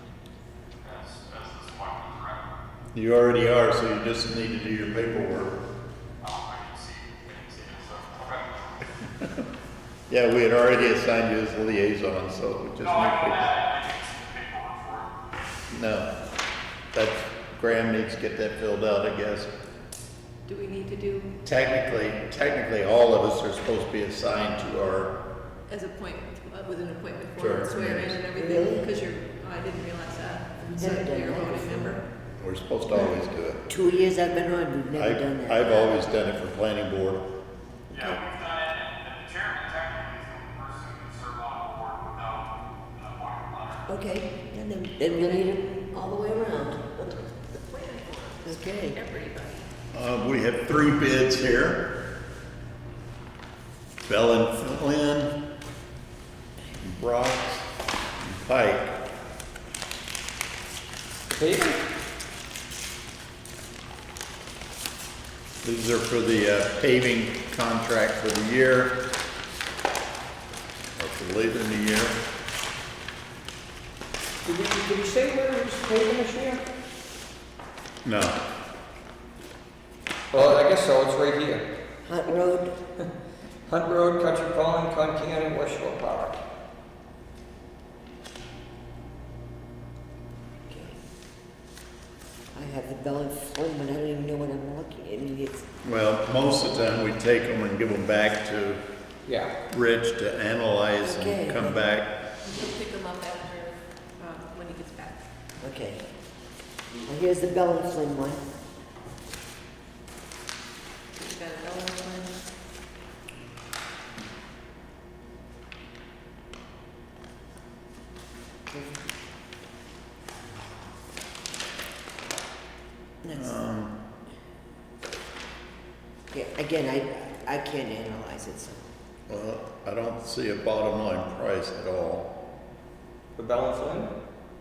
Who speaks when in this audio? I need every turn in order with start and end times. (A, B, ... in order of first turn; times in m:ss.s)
0:00.8-0:02.5 A
0:02.9-0:05.6 B
0:06.2-0:08.7 A
0:10.1-0:13.6 B
0:12.8-0:15.1 A
0:15.7-0:16.1 B
0:16.9-0:19.5 B
0:20.4-0:21.4 C
0:21.4-0:25.1 B
0:25.7-0:32.0 C
0:27.4-0:28.4 B
0:28.4-0:28.8 D
0:30.8-0:31.9 D
0:32.4-0:33.6 B
0:33.7-0:35.9 D
0:34.9-0:37.2 B
0:37.9-0:43.8 A
0:43.9-0:47.0 D
0:47.6-0:49.7 C
0:48.6-0:48.9 D
0:49.9-0:51.9 B
0:54.1-0:55.3 B
0:56.8-0:57.6 B
0:58.2-0:59.0 B
1:01.3-1:01.8 E
1:05.6-1:09.0 B
1:11.0-1:12.2 B
1:14.4-1:16.6 E
1:18.0-1:18.4 B
1:20.3-1:21.6 E
1:22.1-1:22.7 D
1:23.7-1:26.4 E
1:32.5-1:35.6 D
1:35.8-1:38.8 B
1:39.2-1:39.5 E
1:39.7-1:42.1 B
1:41.0-1:41.8 D
1:42.4-1:45.2 C
1:45.6-1:45.9 D
1:45.7-1:46.0 B
1:47.1-1:48.4 D
1:51.1-1:52.4 C
2:03.2-2:03.5 D
2:03.3-2:03.9 B
2:06.3-2:08.7 D
2:07.0-2:07.5 B
2:08.6-2:12.3 B
2:13.4-2:14.1 E